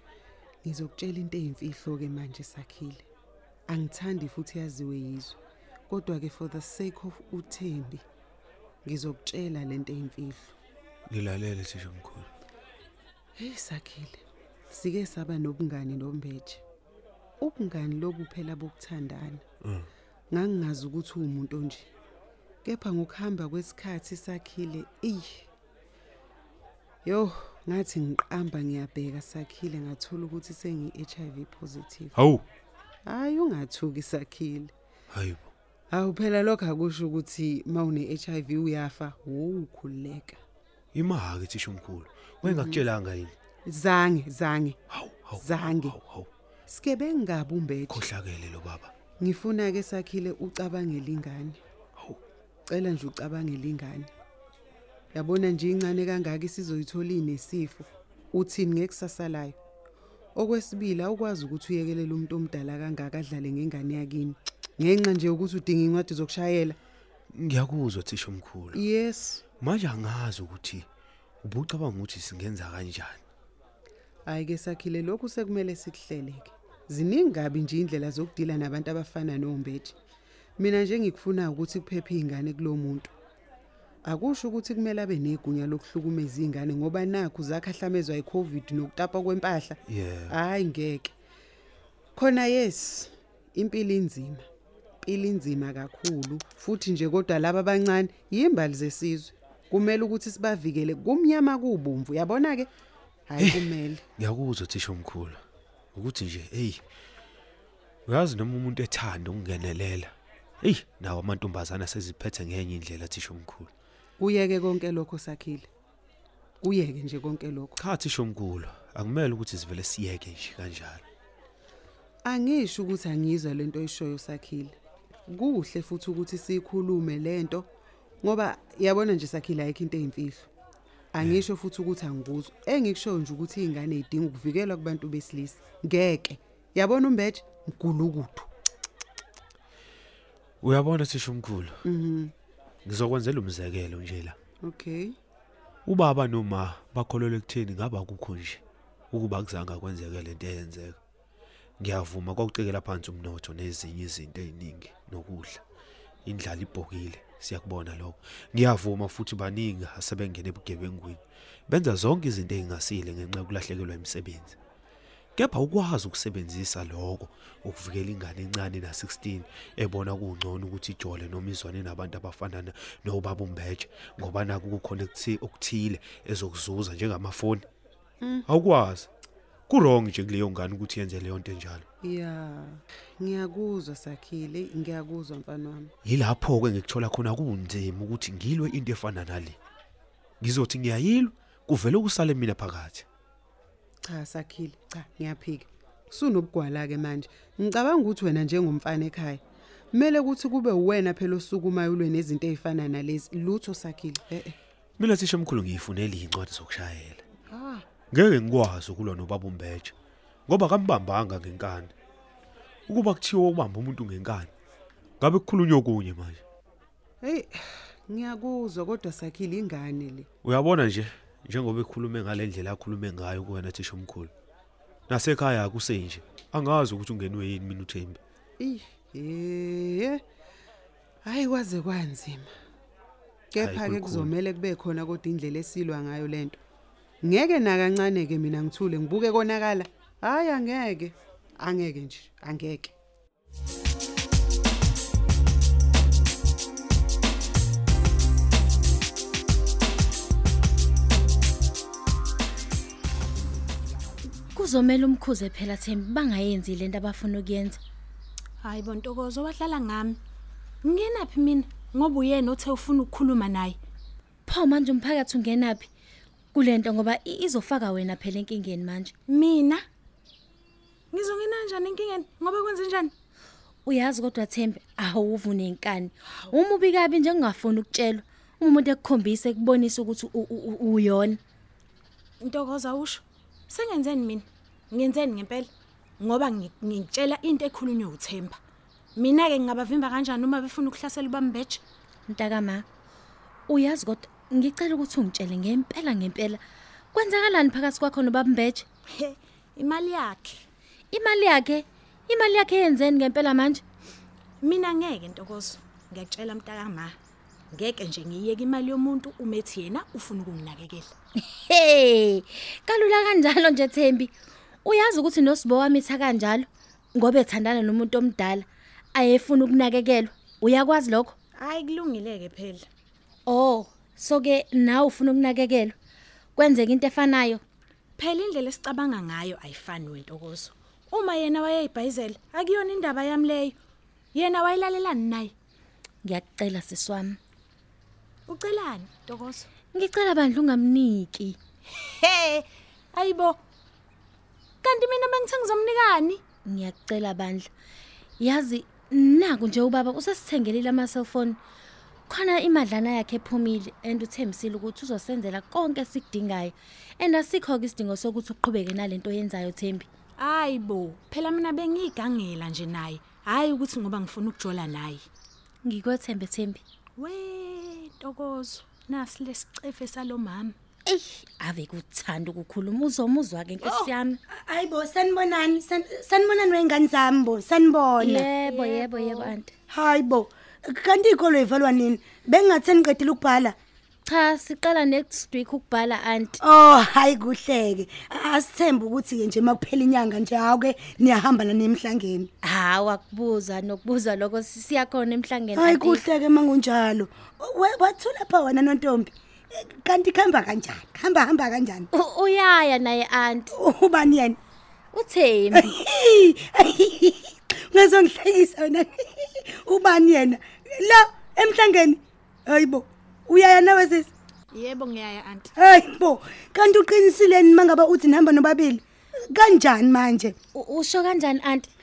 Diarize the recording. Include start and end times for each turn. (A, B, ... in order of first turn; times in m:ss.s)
0:00.6-0:03.0 A
0:03.7-0:05.4 A
0:05.9-0:08.0 A
0:08.8-0:10.5 A
0:11.1-0:12.3 B
0:13.4-0:16.6 A
0:17.4-0:19.4 A
0:20.3-0:21.9 A
0:22.6-0:25.5 A
0:27.0-0:32.1 A
0:32.2-0:32.4 B
0:33.0-0:34.7 A
0:35.1-0:35.5 B
0:35.9-0:40.4 A
0:40.9-0:43.3 B
0:42.4-0:42.8 A
0:43.6-0:44.8 A
0:44.9-0:46.3 B
0:45.4-0:46.0 A
0:46.7-0:48.1 A
0:47.9-0:48.9 B
0:49.2-0:51.6 A
0:52.7-0:54.1 A
0:55.1-0:59.6 A
1:00.3-1:06.8 A
1:07.3-1:08.8 B
1:08.7-1:09.4 A
1:09.6-1:10.8 B
1:11.4-1:13.2 B
1:14.2-1:19.9 A
1:20.6-1:23.1 A
1:24.0-1:31.1 A
1:29.9-1:30.3 B
1:32.2-1:34.4 A
1:35.0-1:42.7 A
1:43.3-1:44.0 A
1:43.4-1:43.6 B
1:44.2-1:45.4 B
1:45.9-1:46.8 B
1:48.1-1:53.7 B
1:54.2-1:55.7 A
1:56.6-1:57.8 A
1:57.8-2:01.0 B
2:02.2-2:04.8 A
2:05.3-2:07.7 A
2:08.2-2:10.5 A
2:11.1-2:18.5 A
2:20.6-2:21.8 B
2:21.8-2:22.3 A
2:22.8-2:24.4 B
2:24.6-2:25.2 A
2:25.8-2:31.0 B
2:31.8-2:35.6 B
2:36.2-2:44.6 B
2:45.4-2:57.6 B
2:58.2-2:58.5 A
2:58.5-2:59.1 B
2:59.7-3:01.8 B
3:02.0-3:05.9 A
3:06.0-3:09.6 B
3:10.4-3:13.0 B
3:14.0-3:19.4 A
3:19.9-3:24.6 A
3:25.0-3:27.2 B
3:27.5-3:27.8 A
3:28.1-3:29.9 B
3:30.5-3:31.9 B
3:32.9-3:34.5 B
3:35.2-3:36.4 B
3:37.2-3:40.3 A
3:40.4-3:44.3 B
3:45.1-3:48.2 B
3:48.6-3:50.2 A
3:51.2-3:52.5 A
3:53.5-3:56.6 A
3:53.6-3:54.3 B
3:57.2-4:02.9 A
4:14.5-4:17.8 C
4:18.6-4:20.2 D
4:20.8-4:23.8 D
4:24.4-4:25.9 C
4:26.5-4:29.1 C
4:29.3-4:29.8 D
4:31.1-4:33.1 D
4:33.8-4:41.4 C
4:42.4-4:48.6 D
4:49.2-4:51.8 D
4:52.3-4:52.8 C
4:53.7-4:56.6 C
4:57.1-4:58.8 C
4:59.2-5:00.6 D
5:01.1-5:03.8 C
5:04.6-5:07.2 D
5:07.7-5:11.1 D
5:11.5-5:14.3 C
5:14.8-5:21.3 C
5:21.6-5:22.9 D
5:23.5-5:25.9 C
5:26.6-5:27.6 C
5:28.2-5:33.8 D
5:34.3-5:35.5 D
5:36.2-5:37.4 C
5:38.5-5:39.7 D
5:39.9-5:41.6 C
5:42.0-5:43.6 D
5:44.8-5:46.4 D
5:46.6-5:47.7 C
5:48.4-5:51.6 C
5:52.3-6:00.1 C
6:00.4-6:05.2 D
6:05.8-6:06.8 C
6:07.2-6:10.8 D
6:11.1-6:14.4 C
6:14.5-6:18.4 E
6:18.2-6:19.7 C
6:18.6-6:19.5 D
6:19.9-6:23.7 E
6:24.2-6:26.6 C
6:26.6-6:32.5 E
6:32.6-6:36.2 C
6:35.7-6:42.1 E
6:42.1-6:43.7 C
6:43.7-6:44.6 E
6:45.1-6:45.9 C
6:45.7-6:54.3 E
6:54.7-6:55.7 D
6:55.8-7:00.5 E
7:00.7-7:01.9 C